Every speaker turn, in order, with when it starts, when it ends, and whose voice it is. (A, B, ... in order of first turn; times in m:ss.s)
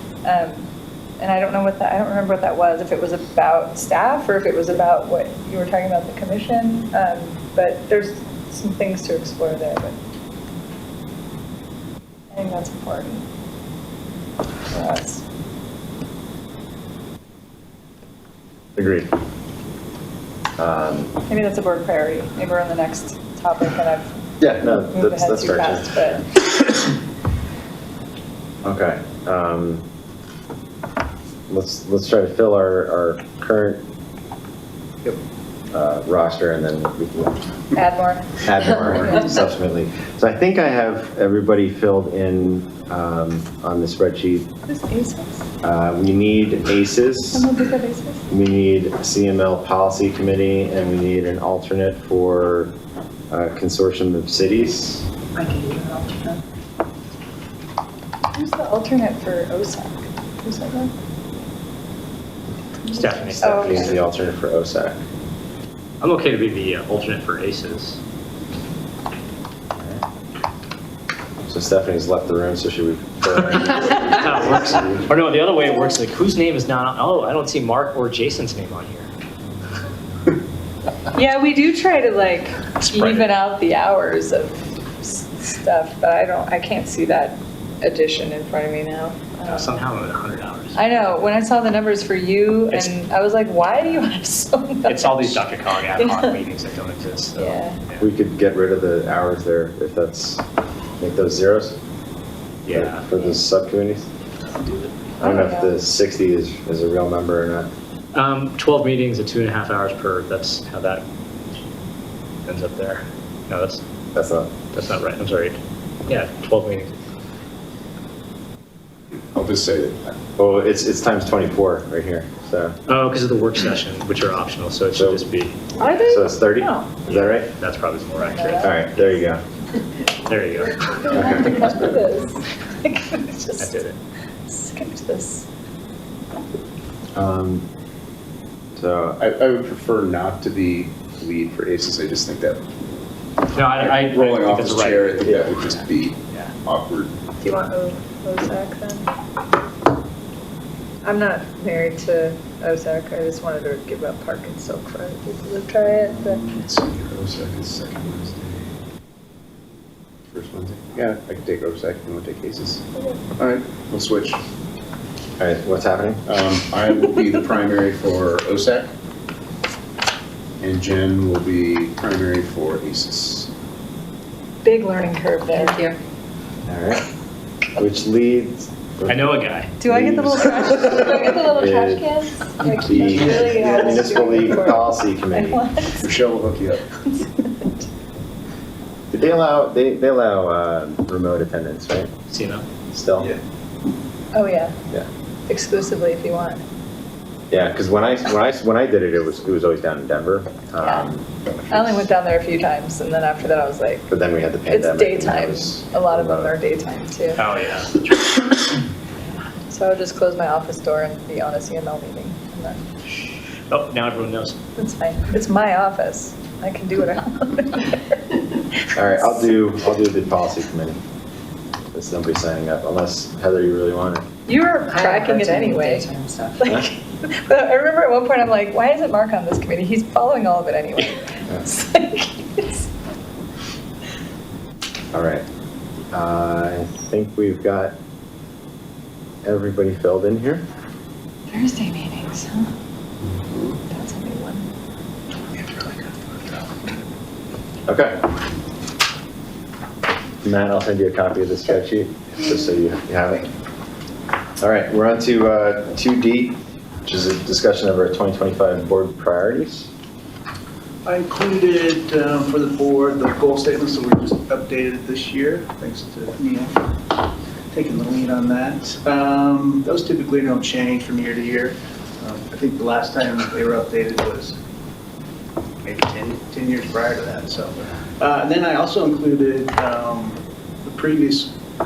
0:00.2-0:10.0 A
0:12.3-0:13.3 A
0:14.7-0:15.2 A
0:18.8-0:19.1 B
0:20.6-0:21.2 B
0:21.3-0:24.1 A
0:24.4-0:26.2 B
0:24.7-0:26.2 A
0:28.6-0:29.8 B
0:31.5-0:33.8 B
0:35.7-0:37.4 B
0:37.7-0:39.4 A
0:38.4-0:44.5 B
0:44.7-0:45.5 A
0:45.6-0:47.5 B
0:47.3-0:48.3 A
0:48.3-0:52.8 B
0:53.3-0:55.1 B
0:55.4-0:56.4 C
0:58.3-1:00.9 A
1:02.8-1:03.9 A
1:02.9-1:04.1 D
1:03.4-1:05.0 B
1:06.0-1:08.0 D
1:09.7-1:10.0 B
1:11.5-1:15.1 B
1:14.0-1:19.1 D
1:21.1-1:29.8 A
1:22.8-1:23.3 D
1:29.5-1:31.1 D
1:30.8-1:35.4 A
1:34.9-1:38.1 D
1:36.0-1:36.4 A
1:37.4-1:37.8 A
1:38.0-1:40.4 B
1:41.0-1:41.8 B
1:42.6-1:43.2 D
1:42.7-1:44.1 B
1:45.2-1:45.8 A
1:45.2-1:47.7 B
1:48.1-1:51.1 D
1:52.5-1:53.8 D
1:54.1-1:54.5 B
1:54.7-1:57.0 D
1:59.1-2:00.1 E
2:00.4-2:02.8 B
2:02.9-2:05.6 D
2:05.0-2:05.2 B
2:05.8-2:07.0 A
2:05.9-2:07.5 B
2:07.1-2:08.8 D
2:08.2-2:09.1 A
2:08.6-2:09.4 B
2:10.3-2:11.8 D
2:10.8-2:13.8 A
2:11.2-2:11.9 B
2:13.6-2:14.0 D
2:14.5-2:15.5 A
2:17.2-2:17.7 B
2:18.8-2:19.2 B
2:19.2-2:22.7 E
2:23.5-2:26.5 D
2:23.7-2:27.2 E
2:27.4-2:29.1 A
2:31.0-2:36.4 A
2:35.9-2:38.8 E
2:40.3-2:42.8 E
2:43.0-2:43.2 A
2:43.4-2:44.4 E
2:45.4-2:46.2 B
2:46.3-2:48.9 E
2:50.6-2:53.5 E
2:54.6-2:55.9 A
2:55.5-2:56.0 C
2:56.7-2:57.0 B
2:57.8-3:00.8 B
2:59.0-2:59.7 D
2:59.8-3:06.1 A
3:01.3-3:02.1 B
3:02.6-3:05.6 B
3:03.0-3:04.6 F
3:03.1-3:03.4 E
3:06.0-3:06.9 E
3:07.0-3:07.9 A
3:09.1-3:12.1 B
3:12.3-3:12.6 D
3:12.9-3:13.3 B
3:14.3-3:14.8 A
3:15.5-3:16.6 A
3:17.5-3:22.1 B
3:20.8-3:21.1 A
3:21.7-3:24.1 A
3:24.1-3:26.6 B
3:24.7-3:27.5 A
3:27.4-3:28.0 D
3:29.6-3:32.9 A
3:33.7-3:34.6 D
3:34.8-3:38.9 A
3:39.0-3:41.0 B
3:41.9-3:44.2 B
3:44.5-3:52.9 A
3:44.9-3:46.7 C
3:55.1-3:55.5 B
3:56.1-3:58.0 B
3:59.4-4:00.6 B
4:01.5-4:02.7 A
4:03.9-4:04.7 A
4:05.6-4:06.0 F
4:07.9-4:08.3 B
4:10.4-4:13.5 B
4:14.6-4:19.9 B
4:21.0-4:34.6 F
4:35.8-4:41.5 F